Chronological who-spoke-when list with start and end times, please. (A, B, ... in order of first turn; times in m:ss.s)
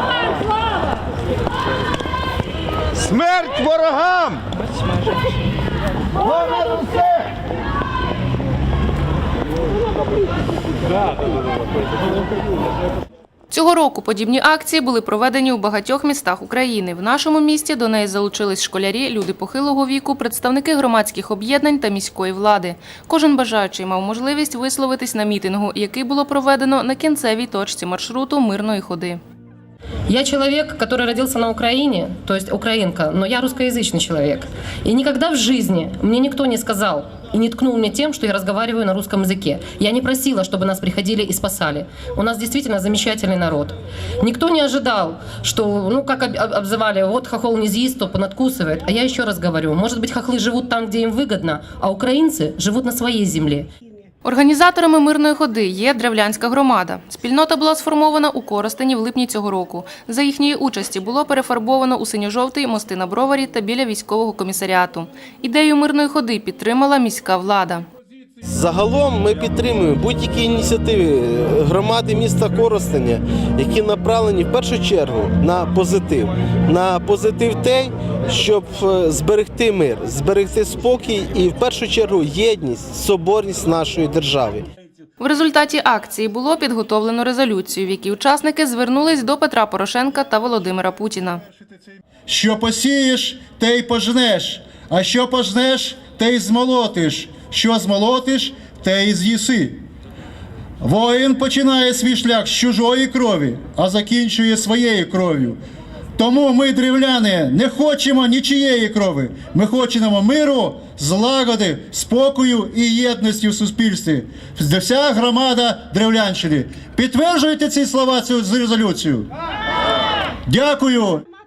0:03.0-0:04.0 A
0:13.5-0:29.2 B
0:30.1-0:53.7 C
0:54.2-1:07.8 B
1:08.4-1:24.6 A
1:25.2-1:31.4 B
1:32.2-1:39.8 D
1:40.8-1:45.6 D
1:46.2-1:59.3 D
2:00.5-2:01.2 D